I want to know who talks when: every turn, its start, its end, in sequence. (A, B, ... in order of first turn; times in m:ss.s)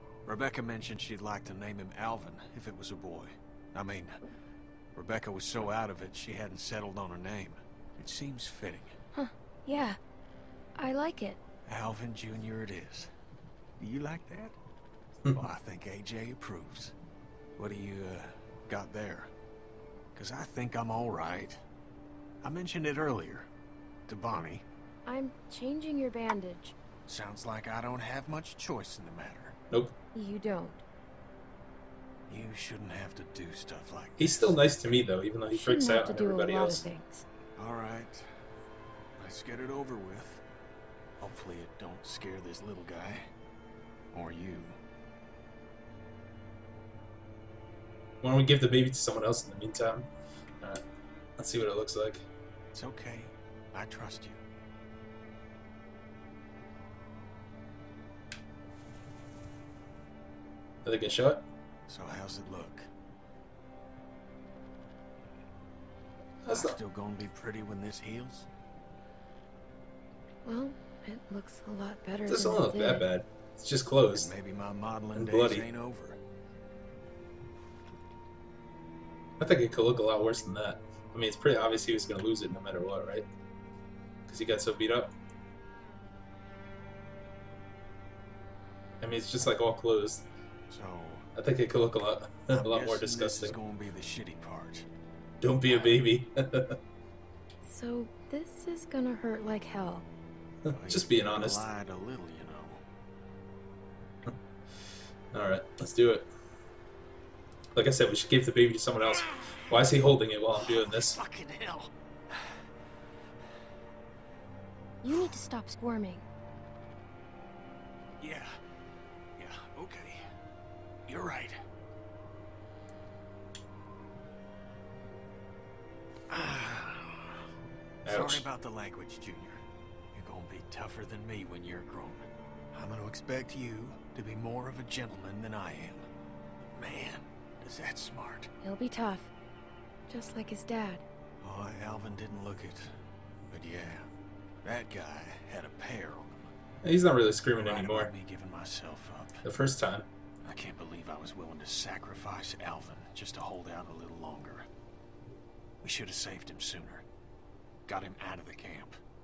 0:00.2-0:04.2 A
0:04.9-0:09.0 A
0:09.1-0:10.0 B
0:10.8-0:11.4 B
0:11.6-0:13.1 A
0:13.8-0:14.6 A
0:15.3-0:16.9 A
0:17.6-0:19.3 A
0:20.1-0:21.6 A
0:22.4-0:23.5 A
0:24.1-0:24.6 A
0:25.0-0:26.7 B
0:27.1-0:29.6 A
0:30.1-0:30.8 B
0:32.3-0:34.6 A
0:34.2-0:36.8 C
0:35.5-0:37.2 B
0:37.6-0:38.2 A
0:39.2-0:40.4 A
0:41.2-0:43.3 A
0:44.1-0:44.8 A
0:48.2-0:50.1 C
0:51.4-0:52.2 C
0:52.7-0:54.4 A
1:00.8-1:01.4 C
1:01.9-1:02.9 A
1:06.4-1:06.8 C
1:06.5-1:08.5 A
1:10.4-1:13.1 B
1:12.3-1:14.3 C
1:14.1-1:16.2 A
1:15.1-1:15.7 C
1:19.4-1:23.2 C
1:24.3-1:25.1 C
1:29.0-1:30.3 C
1:30.7-1:31.3 A
1:31.4-1:33.6 C
1:32.5-1:34.9 A
1:35.4-1:36.8 C
1:35.7-1:35.9 A
1:37.6-1:40.0 B
1:40.6-1:41.6 C
1:40.7-1:42.8 A
1:45.3-1:46.3 C
1:47.7-1:51.2 C
1:49.0-1:49.8 A
1:50.5-1:52.5 A
1:55.0-1:56.2 B
1:55.1-1:55.3 A
1:58.2-1:58.5 A
1:59.4-2:00.2 A
2:01.1-2:01.6 A
2:06.3-2:07.4 A
2:08.0-2:08.5 C
2:08.0-2:09.6 A
2:10.1-2:16.0 A
2:16.6-2:18.5 A
2:18.6-2:19.3 B
2:20.1-2:21.0 B
2:21.4-2:22.9 A
2:23.5-2:24.1 A
2:24.6-2:26.5 A
2:26.8-2:28.1 C
2:27.6-2:29.4 A
2:29.4-2:30.0 C
2:30.4-2:34.7 A
2:35.8-2:37.0 A
2:37.9-2:39.0 A